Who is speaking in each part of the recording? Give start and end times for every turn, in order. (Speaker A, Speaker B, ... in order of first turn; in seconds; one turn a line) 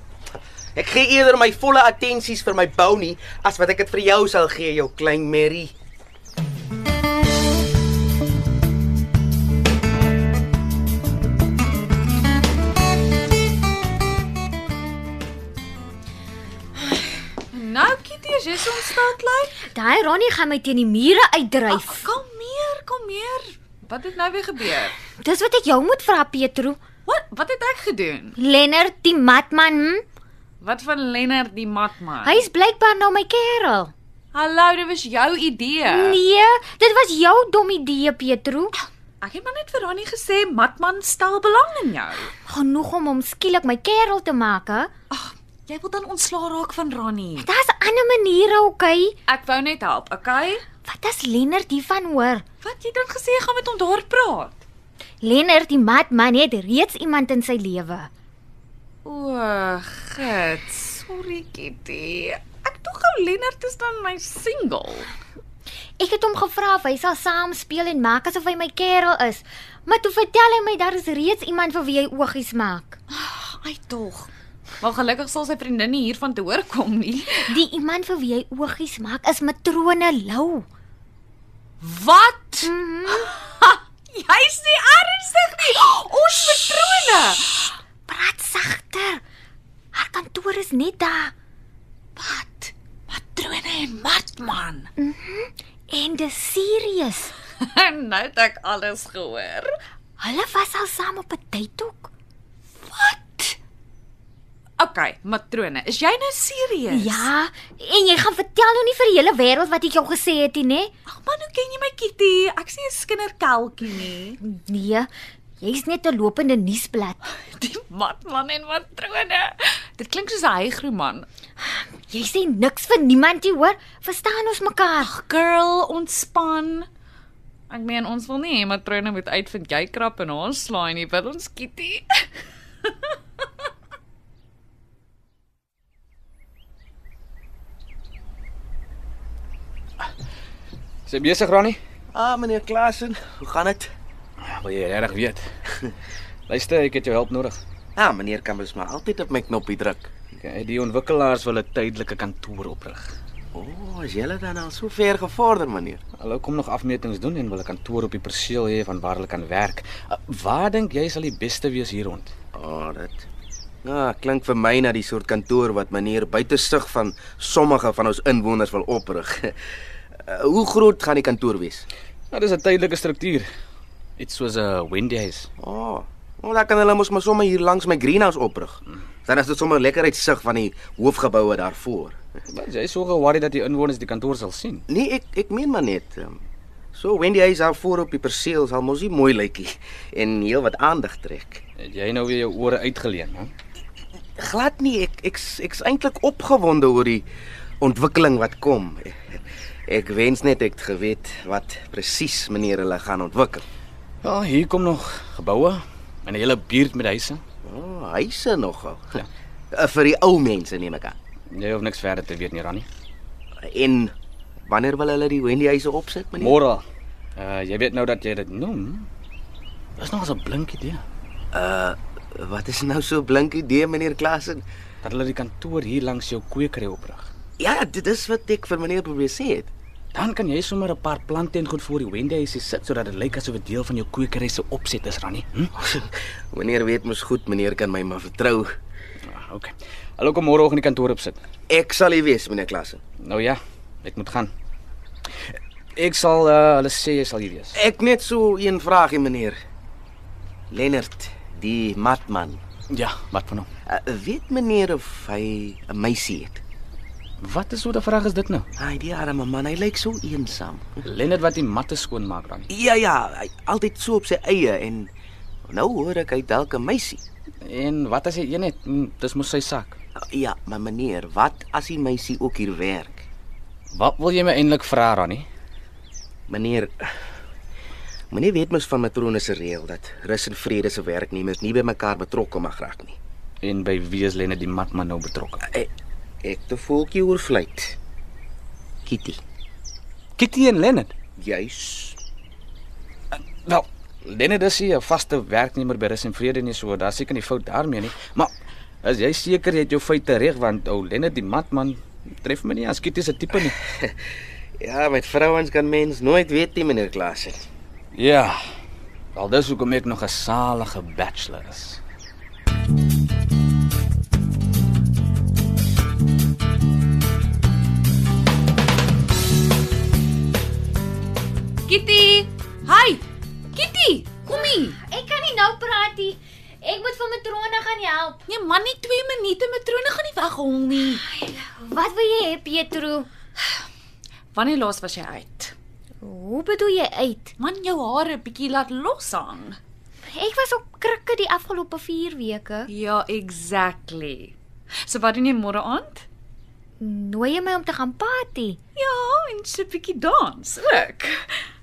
Speaker A: 0.8-5.7
Speaker B: 17.5-19.6
Speaker C: 19.6-22.1
Speaker B: 21.7-25.0
Speaker C: 25.2-26.8
Speaker B: 27.1-28.4
Speaker C: 28.4-30.0
Speaker B: 30.6-32.5
Speaker C: 32.2-33.9
Speaker B: 34.3-36.2
Speaker C: 35.9-38.7
Speaker B: 39.2-42.3
Speaker C: 42.5-44.9
Speaker B: 45.1-47.5
Speaker C: 47.4-49.2
Speaker B: 49.3-50.6
Speaker C: 50.9-52.4
Speaker B: 52.6-54.6
Speaker C: 55.2-58.1
Speaker B: 59.0-65.1
Speaker C: 66.0-73.0
Speaker B: 73.2-74.3
Speaker B: 74.8-77.6
Speaker C: 77.5-80.7
Speaker B: 81.8-87.8
Speaker C: 82.6-83.3
Speaker C: 88.1-89.2
Speaker C: 89.9-91.3
Speaker B: 92.2-94.9
Speaker C: 95.0-97.3
Speaker B: 97.6-99.7
Speaker C: 100.2-102.1
Speaker C: 103.1-103.5
Speaker B: 104.8-107.3
Speaker C: 106.9-110.9
Speaker B: 111.1-114.4
Speaker C: 114.4-115.1
Speaker C: 115.6-117.2
Speaker B: 117.3-121.3
Speaker C: 121.6-125.1
Speaker B: 125.0-126.9
Speaker B: 127.7-132.3
Speaker B: 132.8-133.1
Speaker D: 141.1-141.8
Speaker A: 142.1-143.9
Speaker D: 144.4-145.4
Speaker D: 146.5-147.6
Speaker A: 148.0-150.1
Speaker D: 150.4-153.2
Speaker A: 153.5-156.0
Speaker D: 156.2-162.3
Speaker A: 162.6-163.2
Speaker A: 163.8-169.6
Speaker A: 170.2-171.9
Speaker D: 172.3-173.5
Speaker D: 174.2-175.5
Speaker A: 175.6-182.2
Speaker D: 182.5-184.8
Speaker A: 184.9-186.4
Speaker A: 186.9-191.6
Speaker D: 191.8-193.5
Speaker A: 194.4-197.2
Speaker A: 197.8-203.7
Speaker D: 204.2-207.4
Speaker A: 207.6-209.1
Speaker A: 209.7-211.2
Speaker D: 211.5-212.9
Speaker A: 213.6-214.1
Speaker A: 214.7-216.5
Speaker D: 216.4-216.8
Speaker D: 217.4-219.1
Speaker D: 220.0-221.0
Speaker A: 221.5-224.6
Speaker D: 225.0-227.3
Speaker A: 227.6-229.7
Speaker D: 230.1-235.7
Speaker A: 235.8-238.7
Speaker D: 239.3-241.4
Speaker A: 241.7-243.0
Speaker D: 243.2-244.5
Speaker D: 245.9-247.7
Speaker A: 247.8-249.6
Speaker A: 250.7-252.6
Speaker D: 252.9-253.7
Speaker A: 253.9-256.6
Speaker D: 257.4-258.7
Speaker A: 258.8-261.0
Speaker D: 261.1-262.7
Speaker A: 262.7-265.1
Speaker A: 265.7-267.2
Speaker D: 267.6-270.0
Speaker A: 270.2-273.2
Speaker D: 273.9-275.5
Speaker A: 276.5-276.9
Speaker A: 278.3-283.2
Speaker D: 283.6-285.6
Speaker A: 286.4-287.9
Speaker A: 289.1-289.4
Speaker D: 290.4-291.1
Speaker A: 291.4-292.2
Speaker D: 293.6-298.5
Speaker D: 299.0-303.8
Speaker A: 304.8-307.6
Speaker D: 308.1-308.6
Speaker D: 309.3-312.0
Speaker B: 321.9-323.2
Speaker B: 323.7-325.0
Speaker C: 325.0-328.4
Speaker B: 328.5-331.2
Speaker C: 331.3-333.3
Speaker B: 334.5-335.7
Speaker C: 336.2-337.5
Speaker B: 337.6-339.8
Speaker C: 340.3-342.9
Speaker B: 342.9-346.2
Speaker C: 347.0-348.8
Speaker B: 348.9-351.6